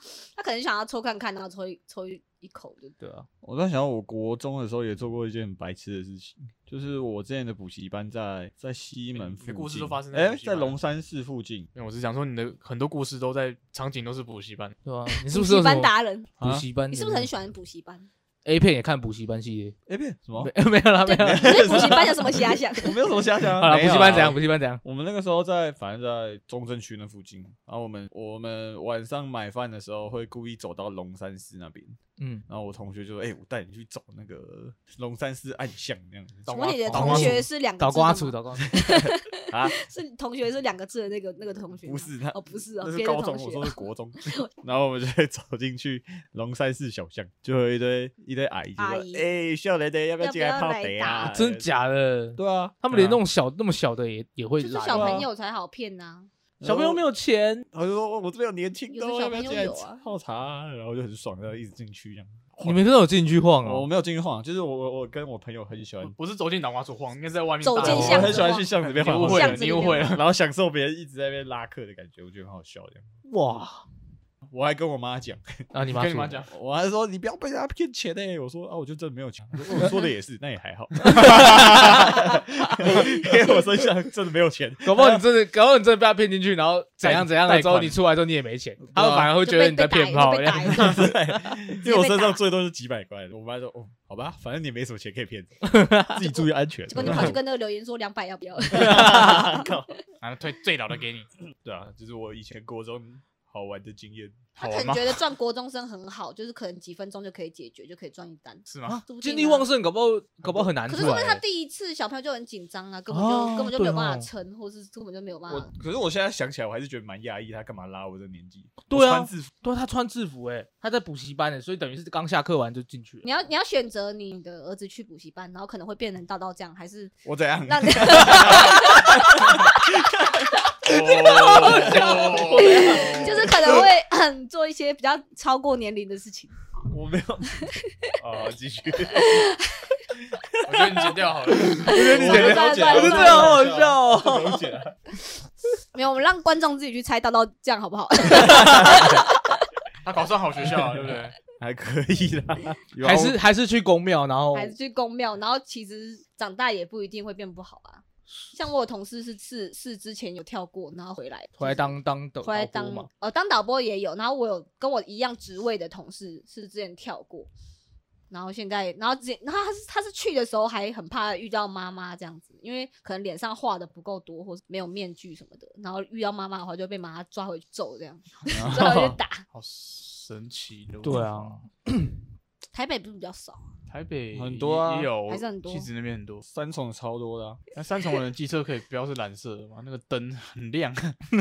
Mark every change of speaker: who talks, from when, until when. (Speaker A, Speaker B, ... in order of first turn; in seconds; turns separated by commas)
Speaker A: 0.3-3.0, Speaker B: 3.0-3.3, Speaker C: 3.4-11.7, Speaker D: 9.1-10.8, Speaker D: 11.7-14.7, Speaker B: 14.8-17.3, Speaker A: 15.1-16.3, Speaker C: 16.4-16.6, Speaker A: 16.9-18.1, Speaker B: 18.4-19.8, Speaker C: 19.9-20.5, Speaker B: 20.4-22.1, Speaker A: 21.0-23.1, Speaker C: 21.2-32.0, Speaker B: 23.6-24.8, Speaker B: 32.2-32.4, Speaker C: 32.5-37.4, Speaker D: 36.5-37.4, Speaker A: 36.5-44.5, Speaker B: 37.8-38.7, Speaker C: 38.7-39.8, Speaker C: 41.8-51.7, Speaker A: 48.8-49.2, Speaker A: 50.2-51.3, Speaker B: 51.2-55.3, Speaker C: 52.4-52.8, Speaker D: 52.9-53.2, Speaker A: 54.6-56.3, Speaker C: 54.9-55.3, Speaker C: 56.6-57.0, Speaker B: 56.6-57.6, Speaker C: 57.7-62.8, Speaker A: 58.9-60.0, Speaker B: 62.6-63.9, Speaker C: 63.6-66.1, Speaker D: 66.0-70.2, Speaker A: 67.6-70.1, Speaker B: 67.8-68.4, Speaker C: 67.8-73.0, Speaker B: 73.3-73.8, Speaker C: 74.5-75.4, Speaker B: 75.7-76.4, Speaker D: 75.9-76.5, Speaker C: 76.5-85.2, Speaker B: 81.0-82.7, Speaker B: 84.8-91.0, Speaker D: 87.0-88.0, Speaker D: 88.9-89.4, Speaker A: 89.4-91.1, Speaker C: 90.7-97.4, Speaker A: 91.8-92.4, Speaker B: 95.6-96.2, Speaker A: 96.9-99.8, Speaker B: 97.0-97.3, Speaker C: 98.7-99.9, Speaker B: 98.7-99.4, Speaker D: 100.2-101.3, Speaker C: 101.6-104.5, Speaker A: 104.6-109.7, Speaker D: 104.6-105.2, Speaker D: 108.7-109.0, Speaker B: 108.9-111.4, Speaker C: 110.4-111.0, Speaker A: 110.9-115.7, Speaker B: 113.1-114.3, Speaker C: 115.5-119.5, Speaker B: 118.9-123.2, Speaker A: 123.2-136.9, Speaker C: 127.2-133.9, Speaker D: 131.4-133.6, Speaker B: 131.5-133.1, Speaker C: 136.9-139.5, Speaker A: 137.6-138.1, Speaker A: 139.1-140.0, Speaker C: 140.2-145.0, Speaker D: 140.6-142.0, Speaker B: 141.8-144.6, Speaker A: 141.8-143.7, Speaker A: 145.9-149.6, Speaker C: 148.4-149.0, Speaker D: 149.0-149.2, Speaker D: 150.0-151.4, Speaker C: 150.9-153.4, Speaker B: 153.0-154.7, Speaker A: 154.5-167.5, Speaker B: 161.6-163.1, Speaker A: 168.3-179.4, Speaker C: 178.5-179.1, Speaker D: 179.5-181.6, Speaker B: 181.0-182.2, Speaker A: 182.7-183.6, Speaker D: 183.9-186.4, Speaker C: 184.3-185.1, Speaker A: 185.3-185.9, Speaker C: 186.4-187.6, Speaker D: 187.7-191.2